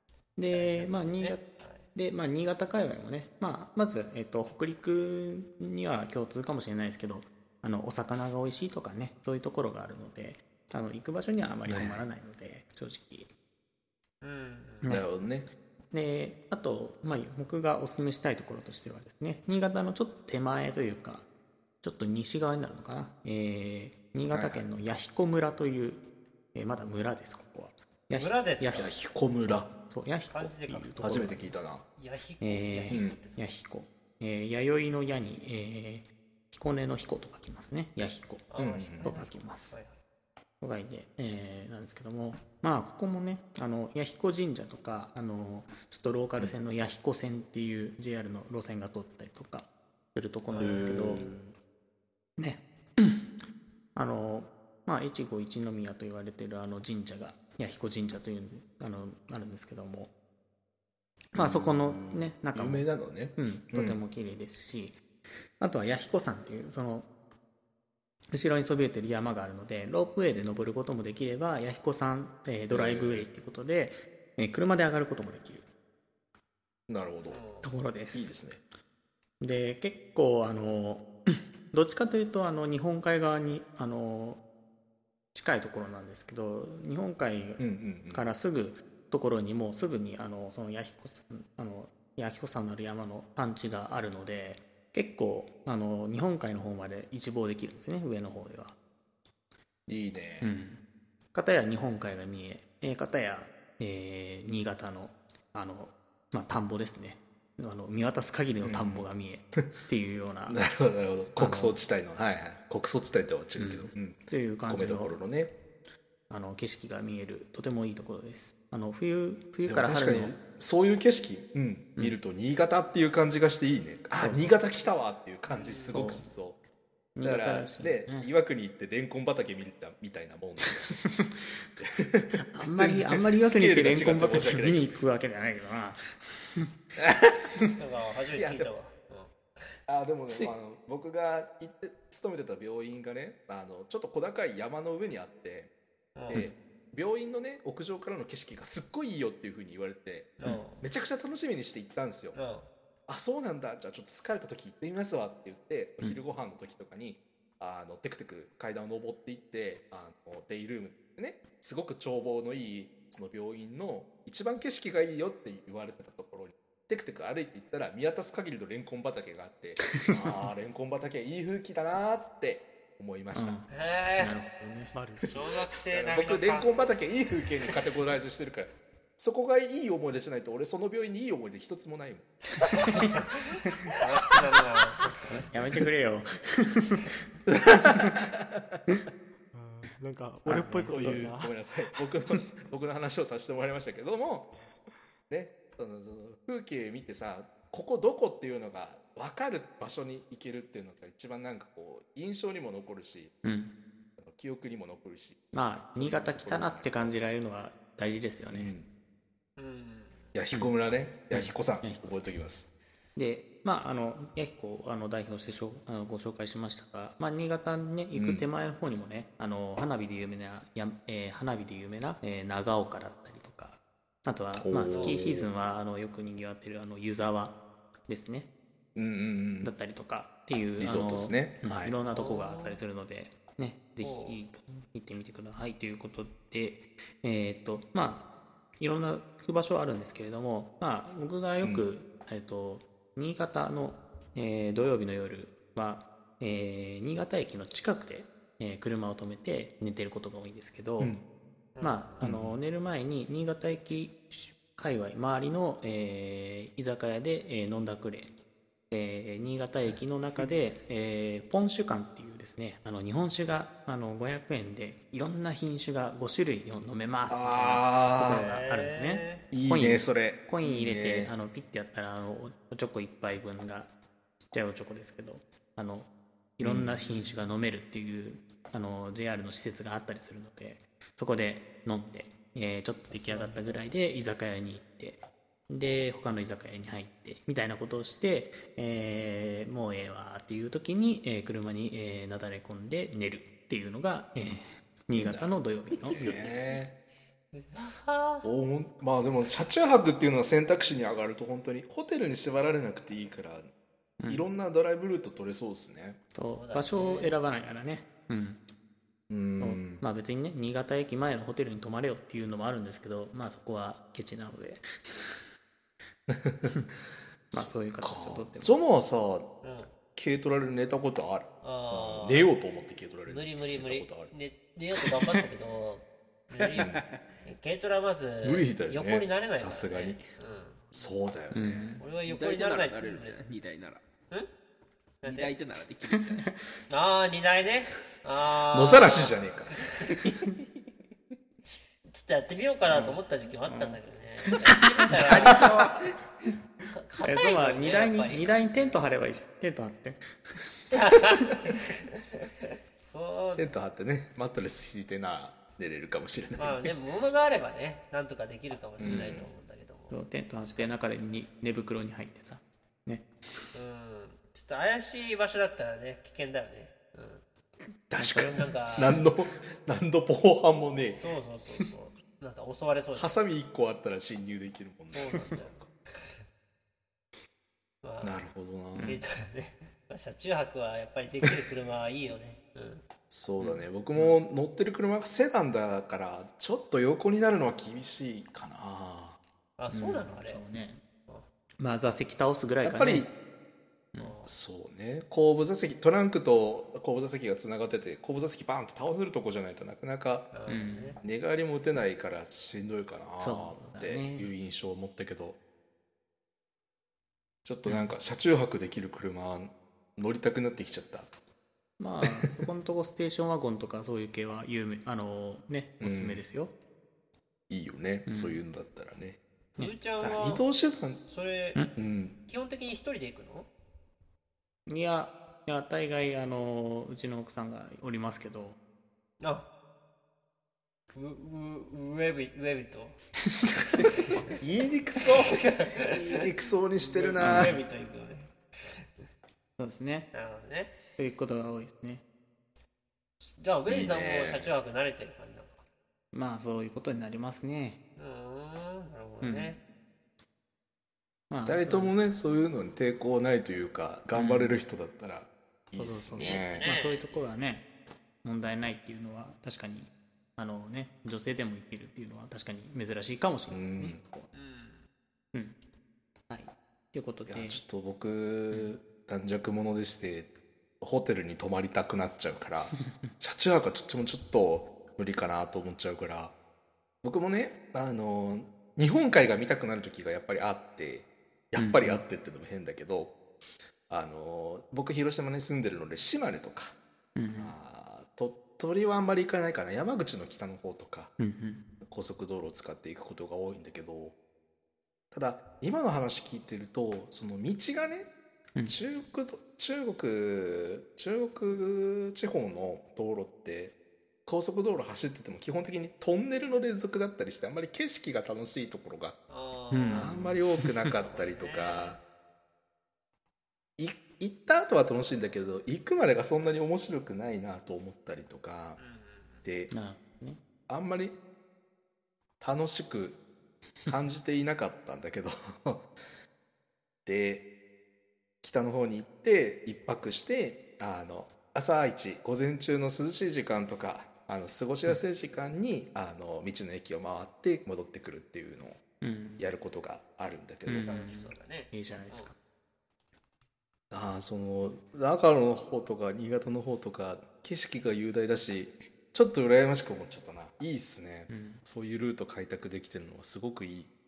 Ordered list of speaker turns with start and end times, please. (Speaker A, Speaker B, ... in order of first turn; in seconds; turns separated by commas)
Speaker A: 0.4-13.3, Speaker B: 0.5-1.8, Speaker C: 11.7-12.0, Speaker B: 14.2-15.0, Speaker C: 14.9-15.5, Speaker A: 15.9-21.3, Speaker A: 21.8-26.0, Speaker C: 24.3-24.6, Speaker A: 26.5-28.9, Speaker B: 28.1-28.9, Speaker C: 28.7-29.7, Speaker A: 29.9-31.6, Speaker B: 30.3-31.3, Speaker C: 31.0-31.8, Speaker B: 32.0-33.5, Speaker A: 32.4-38.5, Speaker C: 32.9-33.2, Speaker B: 38.5-40.0, Speaker C: 38.6-39.2, Speaker A: 39.0-39.8, Speaker A: 40.6-51.3, Speaker B: 50.5-51.4, Speaker C: 50.6-51.5, Speaker A: 52.4-53.3, Speaker A: 54.0-60.1, Speaker A: 61.3-65.0, Speaker C: 61.4-64.0, Speaker A: 65.6-67.1, Speaker A: 68.3-75.7, Speaker C: 72.7-73.3, Speaker C: 76.9-77.4, Speaker B: 77.3-77.7, Speaker A: 77.6-78.3, Speaker C: 78.1-78.6, Speaker A: 79.4-84.4, Speaker A: 85.3-98.8, Speaker C: 87.6-88.2, Speaker C: 99.9-100.5, Speaker A: 100.4-100.8, Speaker A: 101.3-110.6, Speaker C: 108.6-109.1, Speaker C: 110.5-115.5, Speaker A: 111.4-111.8, Speaker A: 113.6-115.2, Speaker A: 116.3-120.4, Speaker C: 119.7-126.6, Speaker A: 124.2-124.6, Speaker B: 125.5-126.0, Speaker A: 125.9-126.3, Speaker A: 127.2-128.3, Speaker C: 127.2-130.9, Speaker A: 130.9-131.3, Speaker C: 131.8-135.0, Speaker A: 132.4-136.7, Speaker C: 137.0-137.4, Speaker B: 137.8-139.7, Speaker C: 138.4-138.7, Speaker C: 139.9-145.7, Speaker B: 146.2-146.5, Speaker C: 146.3-152.4, Speaker B: 150.4-150.8, Speaker B: 152.3-152.7, Speaker C: 153.1-173.6, Speaker A: 170.1-170.4, Speaker A: 173.3-173.7, Speaker B: 173.7-174.4, Speaker A: 174.2-175.3, Speaker D: 174.9-175.5, Speaker B: 175.2-177.0, Speaker C: 175.9-182.3, Speaker A: 182.8-183.2, Speaker B: 184.0-185.0, Speaker A: 185.2-187.1, Speaker C: 187.5-188.9, Speaker A: 187.8-188.1, Speaker D: 189.5-192.0, Speaker A: 190.5-191.3, Speaker C: 190.8-194.5, Speaker C: 195.3-203.3, Speaker A: 203.4-203.8, Speaker C: 204.2-207.1, Speaker A: 205.5-208.7, Speaker C: 208.5-208.9, Speaker B: 209.6-210.3, Speaker C: 210.3-212.7, Speaker A: 211.3-212.4, Speaker A: 213.2-228.5, Speaker C: 218.1-218.4, Speaker C: 224.6-225.5, Speaker B: 224.9-225.3, Speaker C: 229.0-229.7, Speaker A: 229.6-238.3, Speaker C: 230.8-232.0, Speaker B: 232.1-232.8, Speaker B: 234.0-234.4, Speaker A: 238.8-251.2, Speaker C: 241.6-241.9, Speaker B: 251.8-252.2, Speaker A: 251.8-258.3, Speaker C: 252.2-252.6, Speaker A: 258.9-273.9, Speaker C: 267.3-268.4, Speaker B: 268.2-269.4, Speaker C: 269.5-271.3, Speaker A: 274.5-296.8, Speaker C: 276.6-277.0, Speaker C: 295.1-296.9, Speaker B: 296.1-296.8, Speaker B: 297.5-298.5, Speaker C: 298.4-303.7, Speaker A: 304.2-304.5, Speaker C: 304.3-306.2, Speaker A: 306.3-308.6, Speaker B: 306.5-307.4, Speaker C: 309.3-310.0, Speaker A: 309.6-315.3, Speaker C: 316.3-316.7, Speaker A: 317.5-319.0, Speaker C: 317.5-319.5, Speaker B: 319.6-319.9, Speaker C: 320.1-324.3, Speaker B: 321.6-322.5, Speaker B: 323.3-330.9, Speaker E: 326.6-327.2, Speaker C: 328.4-330.2, Speaker C: 330.9-332.0, Speaker A: 331.5-332.0, Speaker B: 332.0-333.5, Speaker E: 332.2-334.0, Speaker B: 335.2-335.6, Speaker E: 335.2-336.5, Speaker A: 336.1-336.5, Speaker B: 336.9-340.2, Speaker C: 338.7-339.8, Speaker B: 341.7-345.7, Speaker A: 342.9-344.0, Speaker A: 345.1-345.7, Speaker C: 345.2-346.0, Speaker B: 346.9-349.0, Speaker A: 347.2-350.9, Speaker B: 350.9-352.5, Speaker B: 353.0-353.7, Speaker C: 353.6-356.9, Speaker B: 356.6-360.2, Speaker C: 359.0-359.5, Speaker A: 360.1-363.2, Speaker B: 363.7-367.4, Speaker C: 368.1-371.2, Speaker A: 368.2-368.7, Speaker B: 368.4-369.2, Speaker B: 371.1-373.4, Speaker C: 373.2-375.8, Speaker B: 375.1-376.4, Speaker B: 378.0-378.4, Speaker C: 378.2-379.1, Speaker A: 379.0-379.2, Speaker B: 379.0-383.0, Speaker C: 383.3-389.4, Speaker A: 383.6-384.4, Speaker B: 389.8-390.6, Speaker C: 389.9-390.3, Speaker A: 390.4-391.0, Speaker A: 391.8-393.3, Speaker C: 392.8-393.3, Speaker B: 394.2-394.5, Speaker C: 394.5-400.5, Speaker B: 400.5-401.2, Speaker A: 400.7-401.2, Speaker C: 401.2-405.6, Speaker A: 403.4-404.5, Speaker C: 407.6-411.3, Speaker A: 407.9-408.1, Speaker A: 412.0-416.7, Speaker C: 412.2-412.7, Speaker C: 416.0-416.4, Speaker C: 417.7-419.4, Speaker A: 418.3-418.6, Speaker B: 419.8-420.6, Speaker C: 420.2-421.2, Speaker B: 421.3-421.8, Speaker C: 422.0-422.4, Speaker B: 422.5-423.7, Speaker A: 424.9-428.8, Speaker B: 429.4-429.7, Speaker B: 431.1-433.2, Speaker C: 434.6-437.8, Speaker B: 435.5-436.0, Speaker B: 437.0-439.1, Speaker A: 437.4-437.8, Speaker A: 439.8-440.3, Speaker B: 440.3-440.9, Speaker A: 441.2-442.2, Speaker B: 443.4-445.8, Speaker C: 443.9-444.7, Speaker A: 446.3-448.0, Speaker B: 448.2-449.8, Speaker A: 449.4-449.8, Speaker A: 451.5-452.1, Speaker C: 451.6-456.9, Speaker A: 454.3-454.8, Speaker A: 456.0-457.9, Speaker B: 456.4-457.5, Speaker A: 458.4-464.5, Speaker C: 463.7-464.2, Speaker B: 464.5-465.1, Speaker A: 466.5-467.8, Speaker C: 467.5-476.6, Speaker C: 477.2-483.4, Speaker A: 481.8-482.2, Speaker C: 484.1-487.0, Speaker A: 487.4-487.8, Speaker C: 487.6-491.3, Speaker A: 491.4-491.8, Speaker C: 492.0-494.4, Speaker C: 495.3-498.3, Speaker C: 498.9-503.9, Speaker C: 504.5-509.4, Speaker B: 509.5-510.4, Speaker A: 509.9-511.1, Speaker C: 510.1-512.2, Speaker B: 511.2-512.2, Speaker C: 514.0-519.0, Speaker B: 519.0-519.7, Speaker C: 519.6-519.9, Speaker A: 519.9-520.6, Speaker C: 520.9-521.4, Speaker C: 522.6-523.4, Speaker C: 524.1-526.1, Speaker C: 527.2-527.7, Speaker C: 528.6-539.0, Speaker A: 539.2-539.6, Speaker C: 539.6-541.2, Speaker A: 540.9-542.5, Speaker B: 541.0-542.5, Speaker C: 544.1-554.1, Speaker A: 551.5-551.8